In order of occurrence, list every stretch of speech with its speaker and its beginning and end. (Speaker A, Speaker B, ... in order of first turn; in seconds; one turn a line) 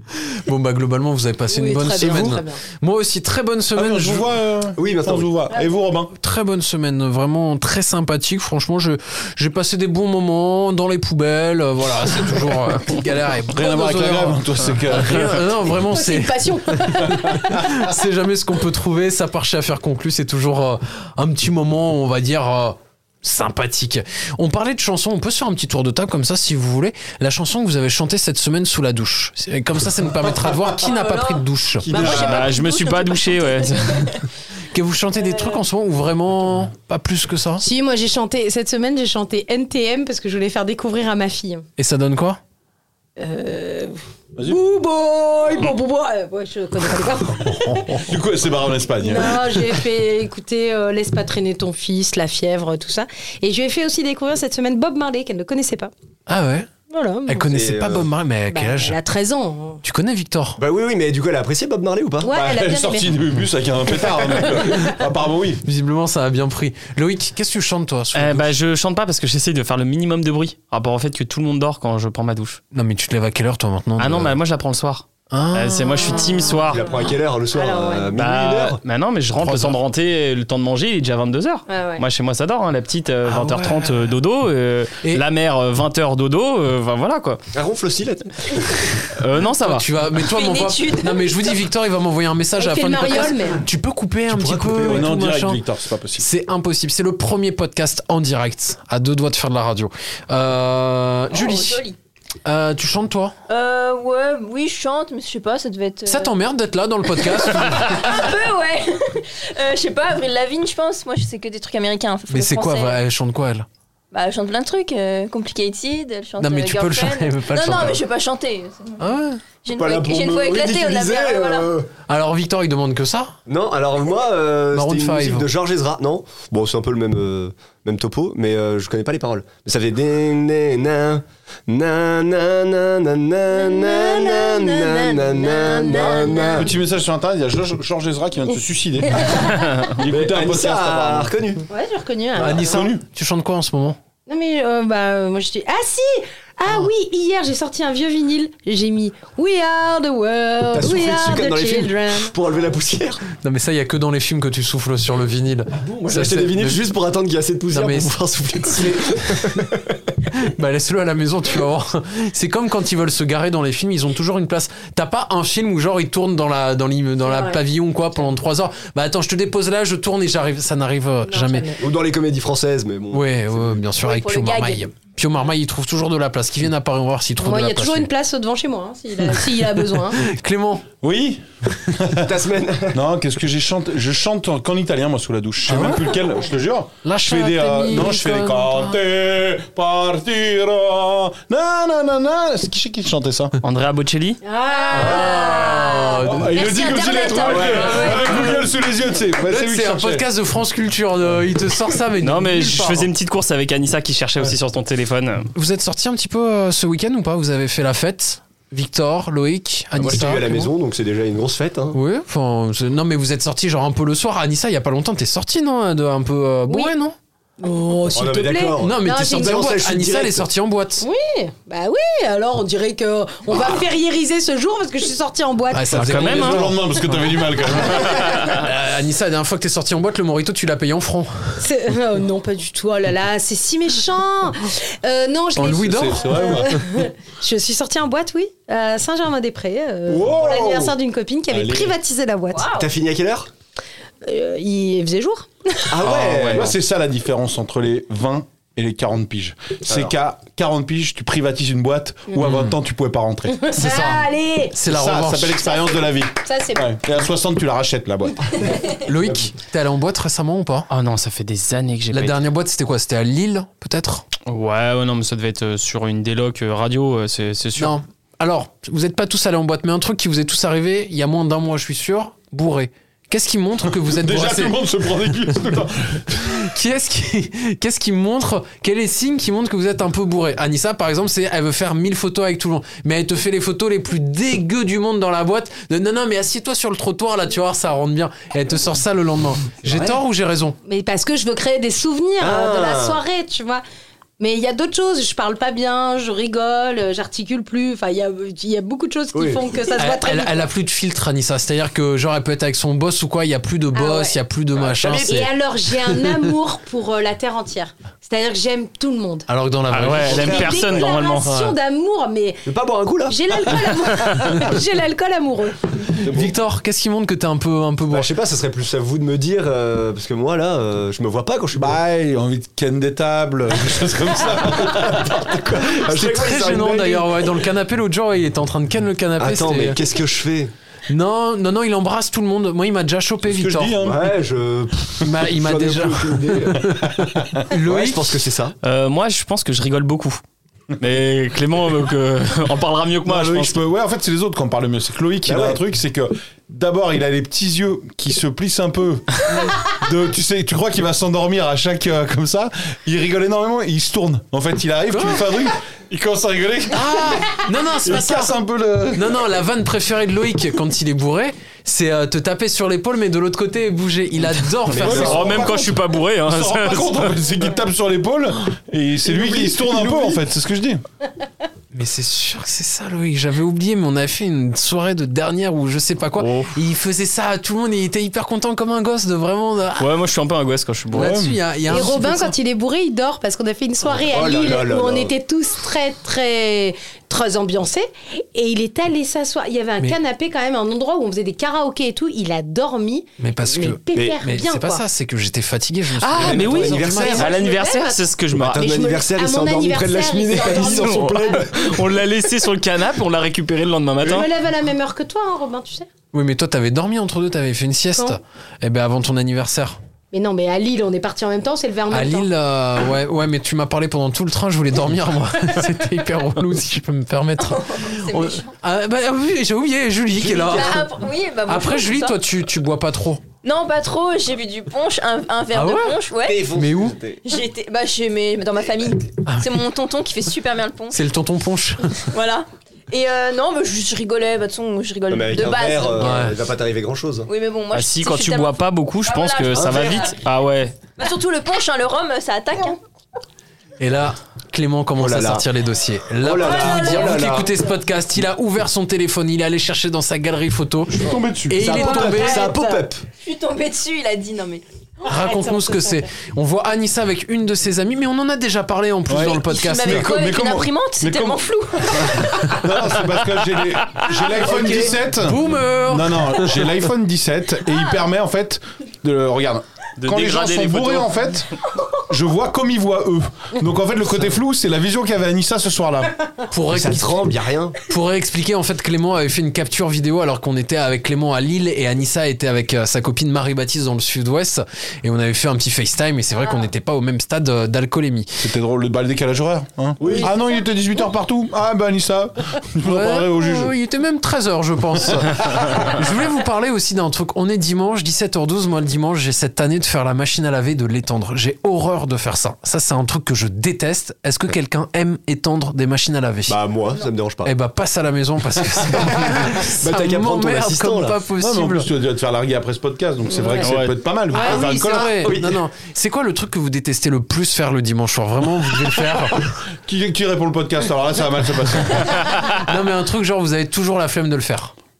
Speaker A: 0.2-4.3
Speaker B: 1.5-2.6
Speaker C: 2.0-2.3
Speaker D: 3.8-6.1
Speaker C: 4.8-5.3
Speaker A: 6.2-31.9
Speaker D: 13.5-15.5
Speaker B: 15.7-17.8
Speaker D: 17.2-17.6
Speaker E: 30.8-31.4
Speaker D: 31.9-32.3
Speaker C: 31.9-32.4
Speaker F: 31.9-34.1
Speaker E: 32.0-34.2
Speaker B: 32.1-32.6
Speaker A: 34.7-37.6
Speaker B: 37.6-41.6
Speaker A: 41.8-42.4
Speaker B: 43.2-48.1
Speaker D: 47.5-49.7
Speaker B: 49.0-55.9
Speaker A: 56.3-56.7
Speaker B: 56.9-57.5
Speaker A: 57.3-59.0
Speaker C: 57.5-58.1
Speaker B: 58.5-59.8
Speaker A: 59.8-60.6
Speaker C: 60.6-62.3
Speaker B: 62.2-63.1
Speaker D: 62.3-65.6
Speaker A: 65.6-68.5
Speaker F: 68.1-72.6
Speaker A: 72.7-74.3
Speaker F: 74.0-76.9
Speaker A: 75.3-76.5
Speaker B: 76.2-77.0
Speaker C: 76.7-78.8
Speaker B: 77.5-78.1
Speaker F: 78.2-87.4
Speaker A: 79.3-79.8
Speaker B: 81.7-82.0
Speaker A: 83.3-83.9
Speaker C: 87.5-88.8
Speaker F: 89.1-89.8
Speaker A: 89.6-95.6
Speaker E: 90.1-91.5
Speaker B: 92.6-93.6
Speaker C: 94.3-95.1
Speaker D: 94.8-96.2
Speaker A: 96.2-101.8
Speaker E: 101.3-102.0
Speaker A: 102.4-103.3
Speaker E: 103.5-106.3
Speaker A: 106.0-108.2
Speaker E: 107.1-113.0
Speaker A: 112.3-113.7
Speaker E: 114.1-119.1
Speaker A: 116.4-118.0
Speaker A: 119.0-119.4
Speaker E: 119.6-121.7
Speaker C: 119.7-121.9
Speaker A: 122.1-123.3
Speaker C: 123.5-136.7
Speaker A: 124.7-125.5
Speaker B: 133.5-136.7
Speaker D: 136.5-141.3
Speaker B: 139.1-139.7
Speaker C: 140.1-141.6
Speaker B: 141.7-142.9
Speaker A: 142.4-144.0
Speaker D: 142.4-143.0
Speaker B: 144.3-152.3
Speaker C: 150.7-153.2
Speaker A: 153.4-156.8
Speaker C: 155.8-159.9
Speaker A: 157.7-159.7
Speaker A: 160.3-171.7
Speaker B: 167.2-167.6
Speaker B: 171.3-171.8
Speaker C: 171.8-173.3
Speaker A: 173.1-178.1
Speaker E: 174.0-174.8
Speaker B: 177.4-180.2
Speaker A: 179.6-180.8
Speaker D: 181.0-182.3
Speaker C: 182.2-183.0
Speaker D: 182.9-193.5
Speaker A: 185.7-186.0
Speaker A: 187.0-188.9
Speaker F: 193.6-194.4
Speaker B: 194.4-196.3
Speaker A: 194.9-196.5
Speaker E: 194.9-195.9
Speaker D: 196.2-200.2
Speaker E: 196.5-198.2
Speaker C: 197.4-197.8
Speaker A: 197.5-198.6
Speaker A: 199.4-203.1
Speaker F: 202.2-205.5
Speaker A: 205.5-210.7
Speaker C: 209.9-212.0
Speaker A: 211.9-217.1
Speaker B: 217.6-219.6
Speaker C: 218.1-220.4
Speaker A: 218.8-221.1
Speaker B: 221.0-226.2
Speaker A: 225.7-227.4
Speaker F: 225.9-226.7
Speaker D: 225.9-228.4
Speaker F: 227.9-228.6
Speaker A: 228.4-231.6
Speaker B: 231.6-242.7
Speaker A: 235.6-236.4
Speaker D: 235.6-236.8
Speaker D: 240.1-240.8
Speaker C: 240.1-240.9
Speaker C: 241.5-241.9
Speaker E: 242.5-242.9
Speaker C: 242.7-243.5
Speaker B: 244.2-245.9
Speaker C: 245.9-246.7
Speaker D: 246.0-253.8
Speaker C: 249.9-250.1
Speaker A: 252.4-252.7
Speaker B: 253.5-254.8
Speaker A: 253.7-255.6
Speaker D: 254.8-258.7
Speaker B: 255.6-256.8
Speaker A: 258.8-260.9
Speaker F: 260.9-262.4
Speaker A: 262.1-264.2
Speaker F: 264.5-267.9
Speaker A: 267.8-274.8
Speaker D: 273.9-276.7
Speaker A: 276.5-290.8
Speaker C: 289.9-290.1
Speaker B: 290.9-293.8
Speaker C: 292.4-293.2
Speaker B: 294.4-300.7
Speaker C: 299.3-299.7
Speaker A: 300.0-305.5
Speaker B: 303.9-304.4
Speaker C: 304.8-305.4
Speaker B: 305.2-309.5
Speaker A: 309.5-310.7
Speaker F: 309.9-311.5
Speaker B: 310.2-312.7
Speaker C: 310.3-310.8
Speaker A: 311.4-311.7
Speaker C: 312.6-313.4
Speaker B: 313.3-316.2
Speaker C: 316.2-316.5
Speaker A: 316.2-318.3
Speaker C: 318.1-322.0
Speaker D: 321.8-325.6
Speaker C: 324.8-327.4
Speaker A: 325.8-330.0
Speaker C: 329.4-330.7
Speaker A: 331.1-334.0
Speaker D: 333.4-334.3
Speaker C: 334.0-336.9
Speaker A: 335.2-338.4
Speaker D: 336.9-337.6
Speaker C: 337.8-338.7
Speaker F: 338.8-340.4
Speaker F: 341.0-343.8
Speaker D: 343.2-359.4
Speaker C: 345.4-345.8
Speaker A: 355.1-355.4
Speaker A: 356.9-358.5
Speaker A: 359.1-365.6
Speaker C: 364.9-365.8
Speaker F: 365.0-367.3
Speaker D: 365.3-365.8
Speaker D: 366.4-371.0
Speaker C: 369.2-370.4
Speaker A: 371.9-380.1
Speaker F: 376.4-376.7
Speaker F: 380.0-381.4
Speaker A: 381.1-382.5
Speaker D: 381.1-381.6
Speaker B: 381.9-395.0
Speaker C: 384.1-385.3
Speaker A: 393.4-397.5
Speaker C: 394.1-394.4
Speaker F: 396.2-398.8
Speaker C: 396.4-397.5
Speaker B: 397.1-401.6
Speaker C: 398.6-402.0
Speaker F: 400.7-404.5
Speaker B: 404.2-406.1
Speaker A: 406.3-410.0
Speaker B: 410.3-412.5
Speaker A: 412.1-421.1
Speaker E: 417.6-418.7
Speaker C: 420.4-421.1
Speaker E: 420.6-422.4
Speaker A: 421.6-423.4
Speaker E: 423.6-426.6
Speaker A: 425.7-426.2
Speaker C: 426.4-427.4
Speaker A: 426.7-427.2
Speaker E: 427.4-431.2
Speaker A: 431.1-432.3
Speaker E: 432.3-436.4
Speaker C: 435.3-437.5
Speaker A: 436.2-436.6
Speaker E: 437.5-440.4
Speaker F: 437.9-441.0
Speaker C: 439.7-440.3
Speaker E: 441.2-443.0
Speaker A: 444.0-452.6
Speaker C: 445.2-445.6
Speaker C: 446.4-447.7
Speaker E: 446.6-447.3
Speaker D: 451.1-451.9
Speaker C: 451.8-453.2
Speaker B: 452.1-453.0
Speaker E: 452.2-452.6
Speaker E: 453.3-454.8
Speaker A: 455.2-460.3
Speaker B: 455.3-456.2
Speaker D: 459.3-476.3
Speaker E: 459.6-462.7
Speaker A: 464.5-466.9
Speaker F: 470.2-471.3
Speaker A: 476.7-477.5
Speaker C: 476.9-478.0
Speaker A: 478.0-488.6
Speaker D: 488.6-493.9
Speaker C: 490.2-490.5
Speaker A: 493.0-506.8
Speaker D: 495.1-495.8
Speaker C: 506.7-507.7
Speaker A: 507.6-512.1
Speaker C: 509.1-511.4
Speaker D: 511.6-515.5
Speaker A: 513.6-513.9
Speaker F: 513.8-514.1
Speaker A: 514.5-519.7
Speaker B: 514.5-514.8
Speaker C: 515.2-515.8
Speaker D: 520.0-522.5
Speaker A: 522.7-524.9